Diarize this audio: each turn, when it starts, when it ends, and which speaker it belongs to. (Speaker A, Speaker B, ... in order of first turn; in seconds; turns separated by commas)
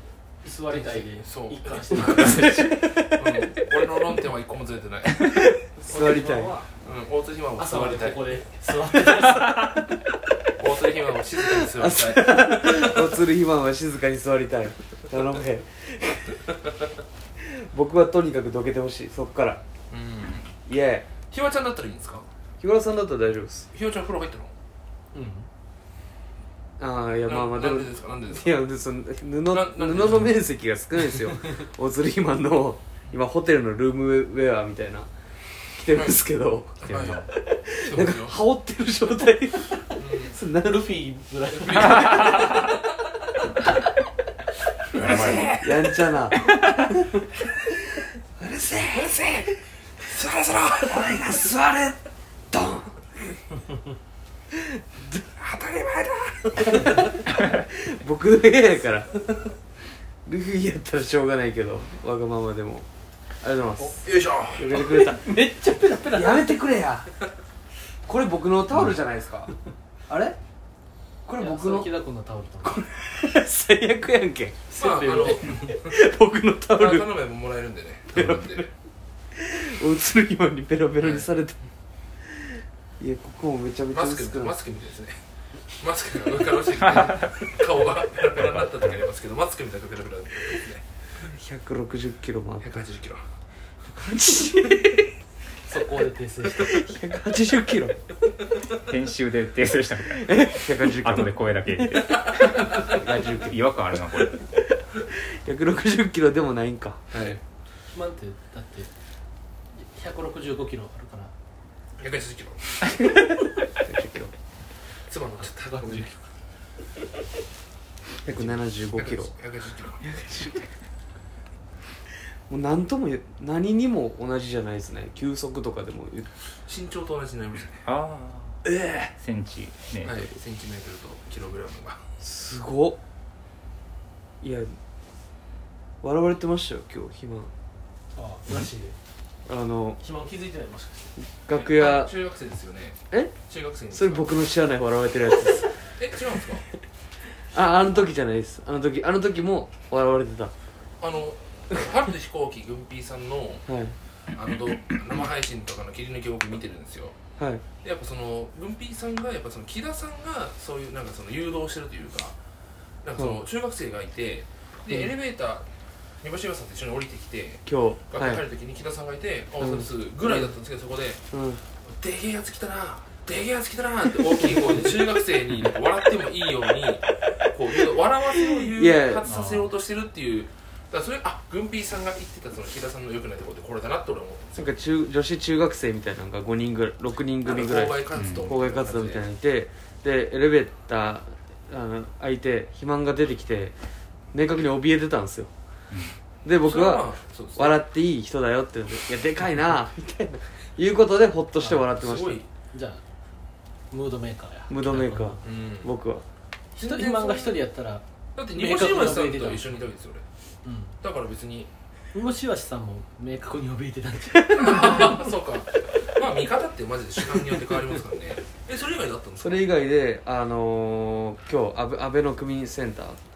Speaker A: 0.4-2.7, Speaker B: 0.7-5.5, Speaker C: 2.4-3.0, Speaker A: 5.8-6.7, Speaker C: 5.8-6.5, Speaker B: 6.8-8.3, Speaker A: 7.5-9.8, Speaker B: 10.5-13.2, Speaker C: 11.6-16.3, Speaker C: 17.4-19.6, Speaker B: 19.9-20.5, Speaker C: 20.6-21.1, Speaker B: 21.3-22.3, Speaker C: 22.6-23.7, Speaker B: 23.7-24.5, Speaker A: 25.1-25.5, Speaker C: 26.8-35.1, Speaker B: 27.3-28.7, Speaker B: 29.5-30.3, Speaker C: 35.7-41.7, Speaker B: 35.9-36.2, Speaker B: 36.8-37.2, Speaker D: 36.9-37.3, Speaker B: 37.8-38.4, Speaker B: 40.0-40.4, Speaker A: 41.2-42.6, Speaker B: 41.5-42.7, Speaker D: 45.0-45.6, Speaker B: 45.0-45.6, Speaker C: 45.6-46.5, Speaker C: 48.4-49.5, Speaker B: 49.1-49.3, Speaker B: 50.0-51.2, Speaker C: 50.8-52.0, Speaker C: 52.5-53.2, Speaker C: 54.5-54.8, Speaker B: 55.4-56.8, Speaker C: 56.5-59.5, Speaker C: 60.2-62.9, Speaker C: 63.4-64.0, Speaker B: 64.0-64.8, Speaker C: 64.5-65.3, Speaker A: 64.9-66.6, Speaker C: 66.1-67.1, Speaker C: 68.0-69.5, Speaker C: 70.1-70.4, Speaker C: 71.2-71.9, Speaker A: 71.3-72.8, Speaker C: 72.6-74.5, Speaker A: 74.7-75.7, Speaker B: 74.8-75.9, Speaker C: 75.7-77.1, Speaker B: 76.7-78.7, Speaker C: 78.1-78.7, Speaker C: 79.3-81.5, Speaker B: 81.0-81.3, Speaker C: 83.0-84.5, Speaker B: 83.9-85.2, Speaker B: 85.8-90.8, Speaker D: 88.5-88.9, Speaker C: 91.2-92.7, Speaker B: 92.6-93.2, Speaker C: 93.9-95.1, Speaker A: 95.6-96.9, Speaker C: 96.6-98.0, Speaker D: 98.8-104.4, Speaker C: 100.1-103.5, Speaker C: 105.1-107.0, Speaker B: 107.1-107.4, Speaker A: 107.9-108.9, Speaker A: 109.7-111.3, Speaker B: 112.0-112.8, Speaker C: 113.8-114.3, Speaker B: 115.1-116.1, Speaker A: 115.4-116.1, Speaker C: 118.2-119.3, Speaker B: 118.9-120.0, Speaker C: 120.0-120.6, Speaker C: 122.5-126.3, Speaker B: 126.6-127.8, Speaker D: 127.8-128.6, Speaker D: 129.2-130.2, Speaker B: 130.0-132.0, Speaker C: 132.2-133.0, Speaker C: 134.4-134.7, Speaker C: 136.0-137.5, Speaker A: 138.1-138.9, Speaker C: 139.4-140.0, Speaker A: 140.0-141.1, Speaker C: 141.2-142.1, Speaker B: 141.5-144.5, Speaker C: 143.9-145.7, Speaker B: 146.0-146.7, Speaker C: 147.5-150.5, Speaker B: 151.0-153.6, Speaker C: 153.7-153.9, Speaker B: 154.3-157.2, Speaker C: 157.4-157.6, Speaker B: 157.8-162.3, Speaker B: 163.0-165.7, Speaker B: 166.2-171.2, Speaker C: 167.7-168.4, Speaker C: 169.6-170.5, Speaker C: 171.3-171.6, Speaker B: 171.9-184.8, Speaker C: 178.6-179.2, Speaker D: 179.3-179.7, Speaker C: 184.6-193.7, Speaker B: 187.4-189.2, Speaker D: 188.1-188.5, Speaker C: 194.3-195.5, Speaker D: 195.9-196.2, Speaker C: 196.4-197.0, Speaker B: 196.6-197.8, Speaker C: 197.5-202.4, Speaker A: 201.6-201.8, Speaker B: 201.9-202.5, Speaker A: 202.7-203.0, Speaker A: 203.9-205.4, Speaker C: 204.7-206.2, Speaker B: 205.4-205.9, Speaker A: 206.7-209.7, Speaker B: 206.8-207.6, Speaker B: 208.3-210.2, Speaker A: 210.6-210.9, Speaker B: 211.0-211.7, Speaker A: 212.1-215.2, Speaker B: 214.5-219.7, Speaker C: 219.4-223.2